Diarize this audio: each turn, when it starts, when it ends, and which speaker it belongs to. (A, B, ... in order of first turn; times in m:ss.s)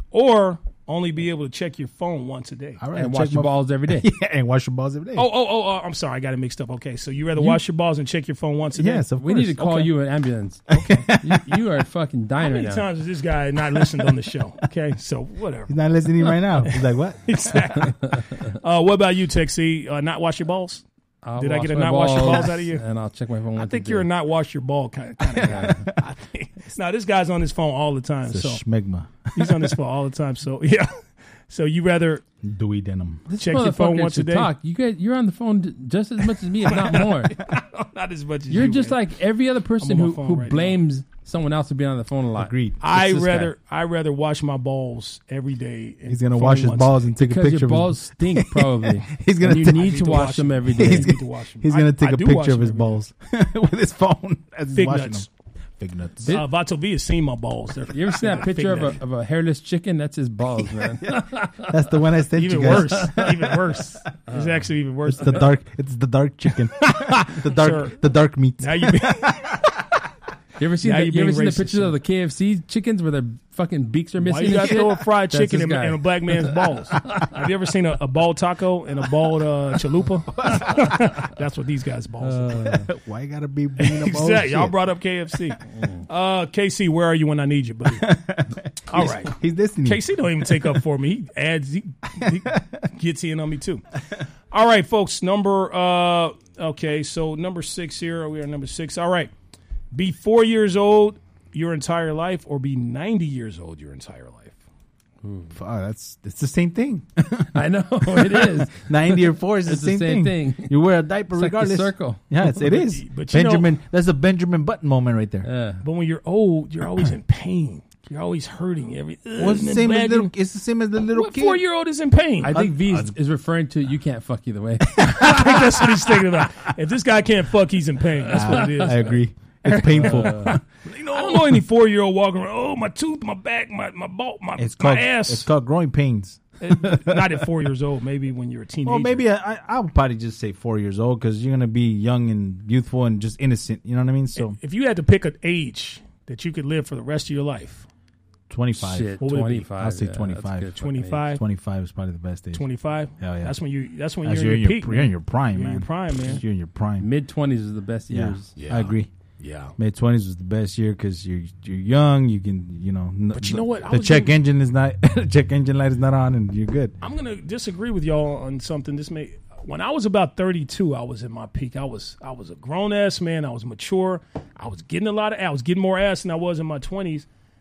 0:00.1-0:02.8 A
0:02.8-0:05.3 B
0:02.9-0:04.1 C
0:05.2-0:09.0 A
0:08.7-0:09.9 B
0:09.2-0:12.9 C
0:10.7-0:11.6 B
0:12.4-0:15.8 A
0:15.7-0:17.9 B
0:16.6-0:20.8 A
0:21.2-0:24.1 C
0:21.4-0:22.8 A
0:23.6-0:28.6 A
0:25.3-0:26.0 B
0:25.4-0:25.9 C
0:28.3-0:29.8 B
0:29.3-0:32.2 A
0:32.4-0:33.3 B
0:33.3-0:37.4 C
0:33.4-0:34.5 A
0:36.6-0:39.0 A
0:38.5-0:43.5 C
0:39.8-0:40.8 A
0:42.4-0:42.8 B
0:42.8-0:47.0 A
0:46.1-0:55.3 B
0:47.2-0:51.1 C
0:49.6-0:53.0 A
0:54.7-0:55.3 A
0:55.8-0:56.4 B
0:56.3-0:59.0 A
0:57.9-1:01.7 C
1:01.0-1:03.8 B
1:02.3-1:05.5 A
1:02.7-1:03.2 C
1:04.3-1:04.5 C
1:05.0-1:09.7 B
1:06.7-1:08.0 A
1:08.6-1:09.8 A
1:10.6-1:17.3 C
1:10.8-1:11.9 A
1:14.2-1:22.9 A
1:20.4-1:20.9 B
1:22.2-1:22.9 C
1:22.8-1:24.8 B
1:23.8-1:28.2 A
1:25.7-1:26.0 C
1:27.9-1:30.8 B
1:28.9-1:33.9 A
1:32.2-1:32.8 B
1:34.5-1:39.3 A
1:39.9-1:44.6 A
1:45.2-1:45.5 C
1:45.5-1:47.5 B
1:47.5-1:50.8 C
1:48.0-1:55.5 B
1:51.3-1:52.3 C
1:52.6-1:53.7 A
1:55.4-1:55.8 C
1:55.8-2:00.3 A
1:59.4-2:01.6 B
2:01.1-2:02.6 A
2:02.4-2:05.4 C
2:02.5-2:03.1 B
2:04.8-2:06.4 B
2:05.0-2:15.5 A
2:08.3-2:11.6 B
2:09.9-2:10.5 C
2:14.6-2:17.4 B
2:16.6-2:19.2 A
2:18.8-2:24.6 B
2:24.4-2:27.9 A
2:28.5-2:32.6 B
2:28.8-2:31.2 C
2:29.2-2:29.7 A
2:30.8-2:31.4 A
2:32.5-2:36.4 A
2:33.2-2:33.6 B
2:34.2-2:37.0 B
2:37.0-2:38.5 C
2:38.1-2:39.1 B
2:38.6-2:39.8 A
2:39.8-2:46.9 B
2:43.3-2:44.4 A
2:47.0-2:57.3 A